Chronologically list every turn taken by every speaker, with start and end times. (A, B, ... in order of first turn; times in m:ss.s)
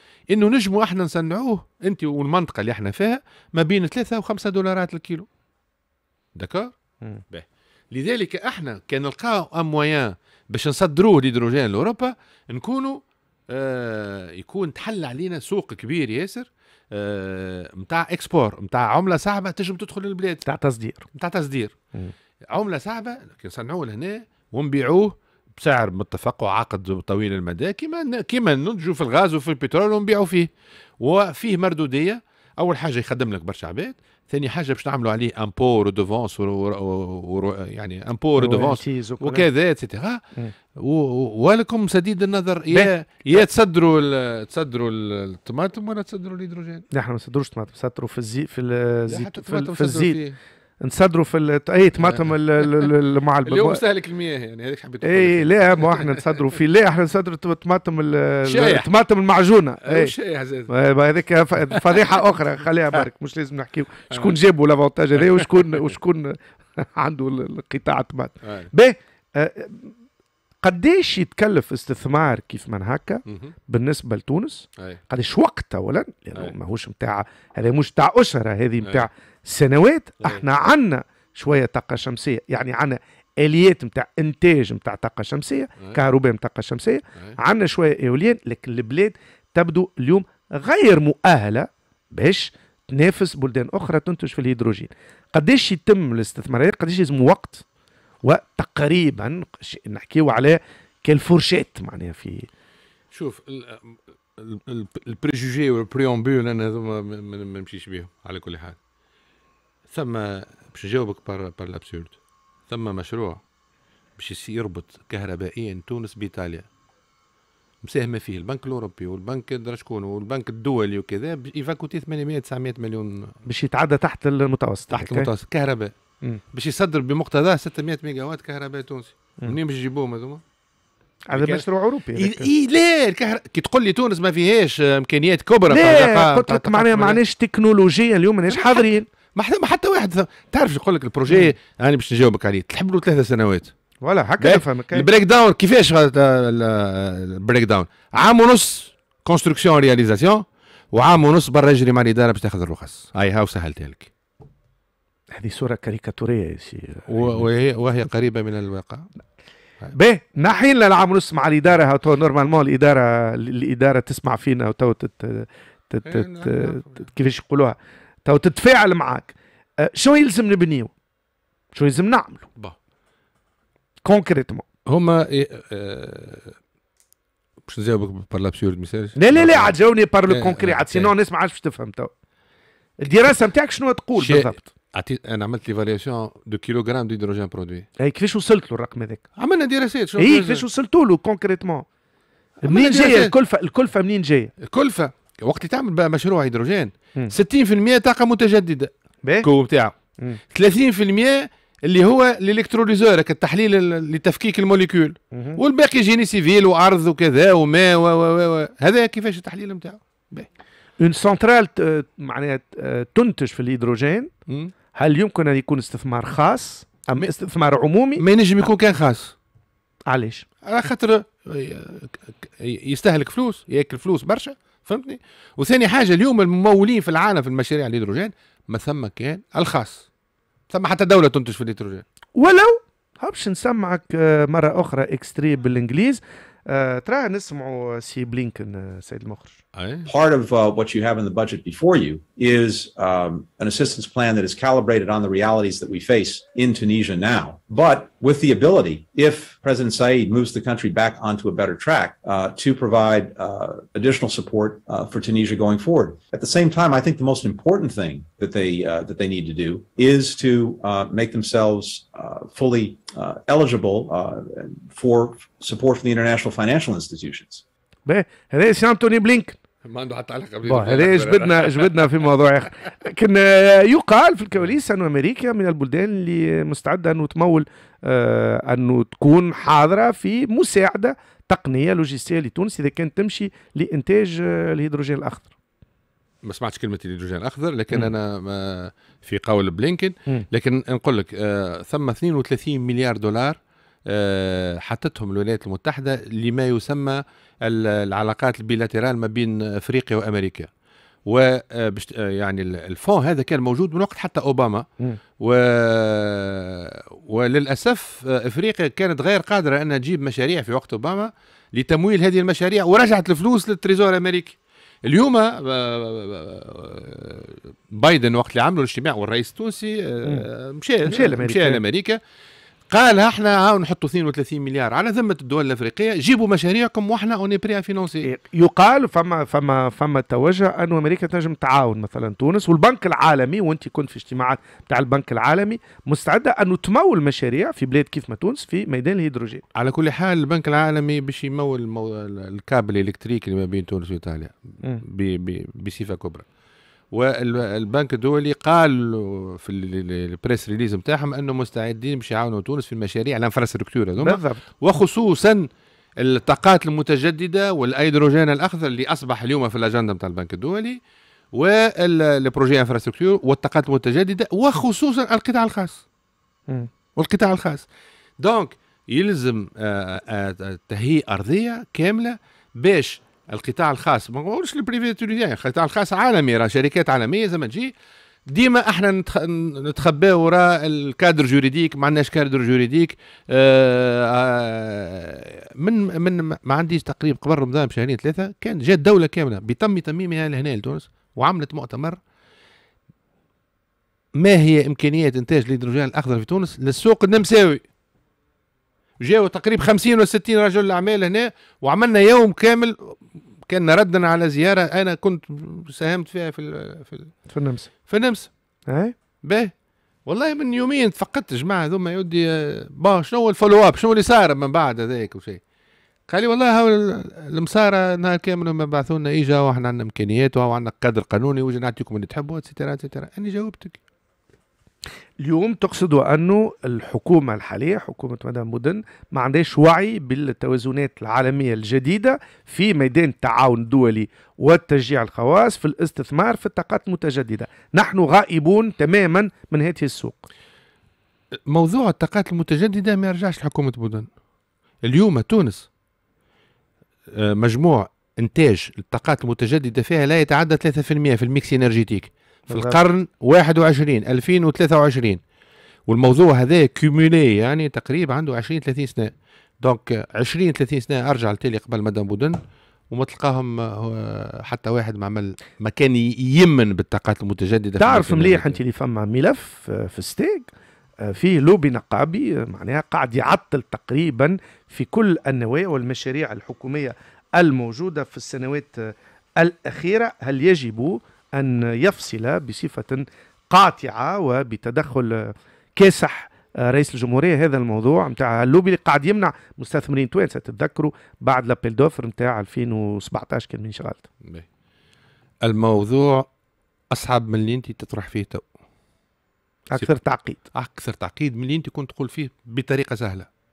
0:00.3-0:05.3 A
0:06.4-0:06.7 A
0:07.3-0:20.5 A
0:20.5-0:21.0 B
0:21.2-0:21.8 A
0:22.5-0:30.5 A
0:31.0-0:40.2 A
0:38.4-0:39.4 B
0:40.8-0:46.8 A
0:42.7-0:43.4 B
0:46.9-0:50.2 B
0:49.1-0:50.4 A
0:50.8-0:53.8 B
0:52.0-0:52.9 A
0:53.4-0:56.4 A
0:55.0-1:00.1 B
0:58.5-0:58.9 A
0:59.8-1:00.7 A
1:00.7-1:09.9 B
1:01.7-1:02.1 A
1:08.4-1:08.7 A
1:10.6-1:37.6 B
1:13.3-1:13.5 A
1:38.2-1:42.5 B
1:43.1-1:48.8 A
1:49.9-1:52.2 A
1:52.7-1:53.4 A
1:54.2-1:56.7 A
1:57.8-2:03.3 A
2:03.5-2:05.3 B
2:04.9-2:05.9 A
2:06.5-2:10.4 A
2:11.3-2:12.5 B
2:11.3-2:11.6 A
2:12.2-2:17.2 A
2:15.7-2:19.1 B
2:18.5-2:23.7 A
2:21.3-2:21.5 B
2:24.0-2:25.0 B
2:24.4-2:34.1 A
2:35.4-2:37.5 B
2:37.1-2:39.1 A
2:39.9-2:50.9 B
2:46.0-2:47.0 A
2:51.8-2:52.5 B
2:54.0-2:54.6 B
2:54.9-2:56.5 A
2:57.7-2:59.8 A
2:59.2-3:02.1 B
3:00.3-3:01.1 A
3:03.0-3:04.6 B
3:04.2-3:07.9 A
3:08.0-3:09.2 B
3:09.4-3:10.6 A
3:10.2-3:11.9 B
3:12.6-3:13.3 A
3:12.6-3:14.5 B
3:14.6-3:19.9 A
3:20.5-3:30.5 A
3:25.3-3:25.6 B
3:31.0-3:34.3 B
3:35.0-3:38.2 B
3:38.2-3:39.3 A
3:40.1-3:40.5 B
3:40.6-3:50.1 A
3:50.7-3:52.0 A
3:52.4-3:59.6 B
3:59.8-4:00.1 A
4:00.1-4:27.6 C
4:28.1-4:29.6 B
4:29.8-4:32.1 A
4:30.7-4:45.5 B
4:46.4-5:00.7 A
5:01.3-5:04.9 A
5:05.4-5:22.2 A
5:21.1-5:21.8 B
5:22.9-5:28.3 A
5:28.2-5:39.6 B
5:39.8-5:46.5 A
5:47.1-5:55.7 A
5:54.2-5:54.6 B
5:56.2-6:01.0 A
6:01.5-6:06.0 A
6:07.2-6:07.8 A
6:08.4-6:17.9 A
6:18.5-6:32.2 A
6:34.4-6:37.8 A
6:39.2-6:43.2 A
6:43.7-6:47.3 A
6:47.5-6:47.9 B
6:48.1-6:48.5 A
6:48.9-6:49.1 B
6:49.4-6:49.7 A
6:50.3-6:55.6 A
6:56.3-7:04.0 A
7:05.4-7:20.5 B
7:21.7-7:24.3 A
7:25.0-7:25.9 A
7:27.3-7:35.4 A
7:32.7-7:33.0 B
7:36.1-7:42.6 A
7:43.1-7:48.8 A
7:48.0-7:50.7 B
7:51.2-8:14.2 B
8:15.6-8:16.5 A
8:17.1-8:18.7 A
8:19.9-8:20.6 B
8:20.7-8:23.5 A